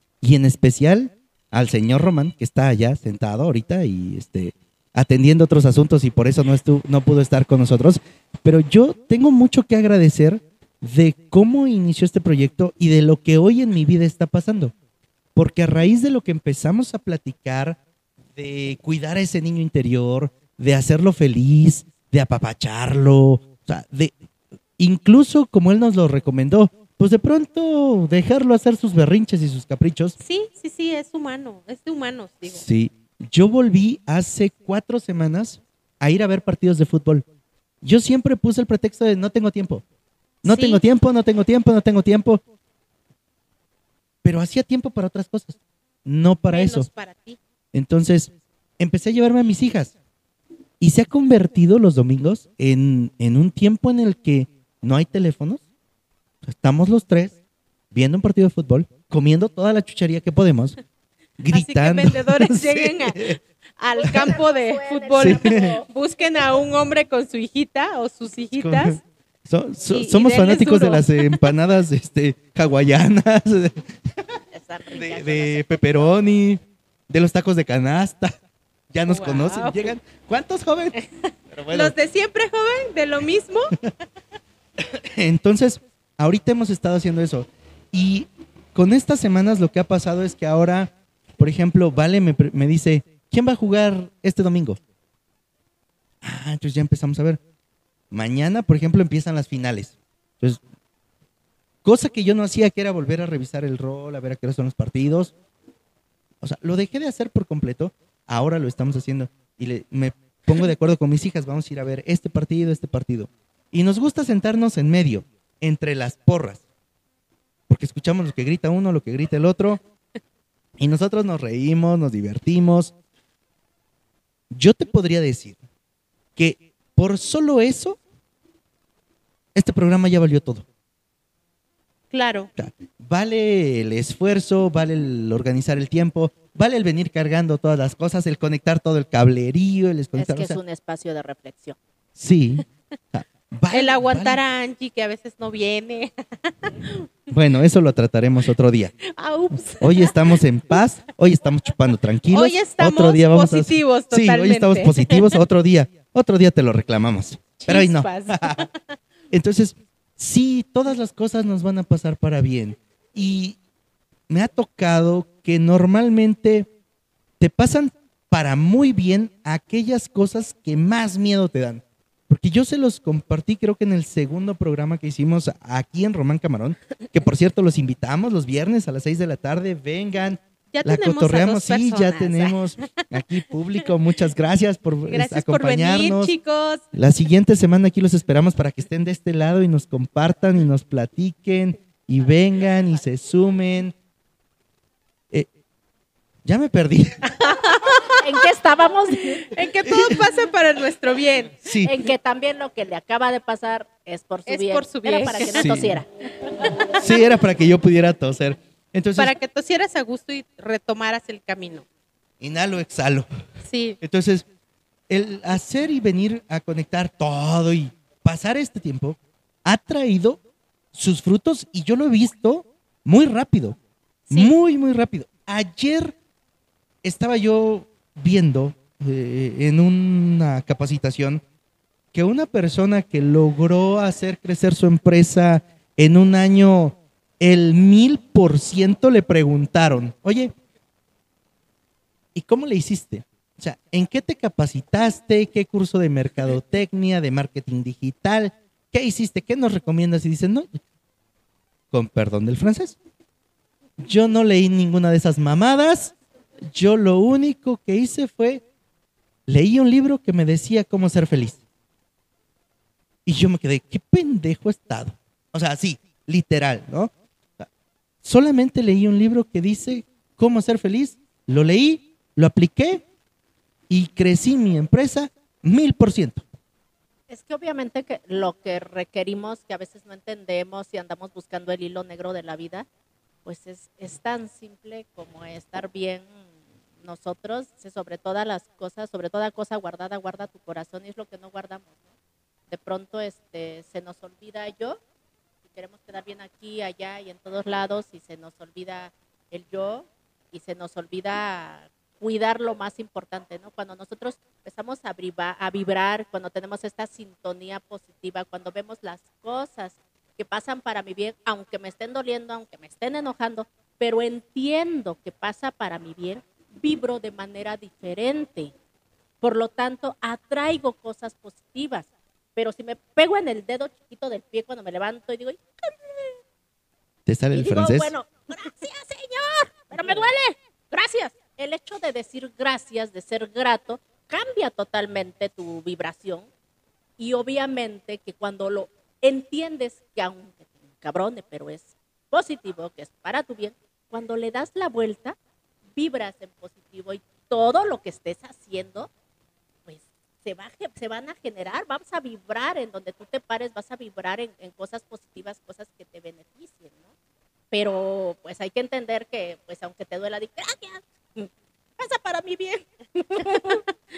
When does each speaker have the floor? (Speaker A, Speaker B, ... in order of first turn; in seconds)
Speaker A: 0.2-14.7, 15.3-17.8, 18.3-24.1, 24.8-30.1, 32.5-37.2, 37.8-39.8, 40.4-42.4, 44.2-46.9, 47.7-49.9, 50.8-55.6, 56.4-57.4, 57.9-60.8, 61.4-63.4, 65.2-65.7, 68.6-73.9, 74.9-78.4, 78.9-81.0, 81.5-81.9, 84.8-94.8, 96.2-97.4, 98.1-100.6, 101.8-105.3, 106.4-116.6, 117.7-119.8, 120.8-122.9, 124.5-125.5, 126.3-128.0, 129.5-130.7, 132.6-140.6, 142.2-144.4, 147.3-148.9, 149.8-158.6, 159.3-163.6, 164.3-166.7, 167.4-186.3, 186.9-193.9, 196.4-197.4, 199.9-200.2, 201.6-201.9, 205.4-206.0, 207.0-209.3, 212.4-213.2, 214.0-214.4, 215.1-220.4, 220.9-223.8, 224.3-226.1, 227.0-231.4, 232.1-240.5, 242.3-250.8, 251.9-252.9, 254.0-256.1, 256.7-258.6, 259.5-261.6, 263.2-267.7, 268.2-273.0, 273.9-276.4, 327.2-328.1
Speaker B: 30.2-32.6, 40.4-40.8, 46.5-47.4, 61.5-69.0, 69.9-71.4, 79.1-79.9, 81.7-83.8, 132.1-132.5, 143.7-147.1, 149.1-150.8, 152.3-155.4, 157.6-158.7, 180.7-183.2, 185.1-186.8, 197.4-198.1, 199.3-201.6, 204.5-205.7, 206.6-207.1, 209.2-211.8, 213.6-214.0
Speaker C: 64.0-65.8, 74.5-75.6, 140.1-141.8, 198.2-199.4, 201.8-206.1, 277.3-282.9, 283.4-286.3, 287.0-291.9, 292.7-295.0, 295.6-318.7, 319.4-326.3, 327.5-336.5, 337.2-345.4, 345.9-349.1, 349.9-357.1, 357.7-363.8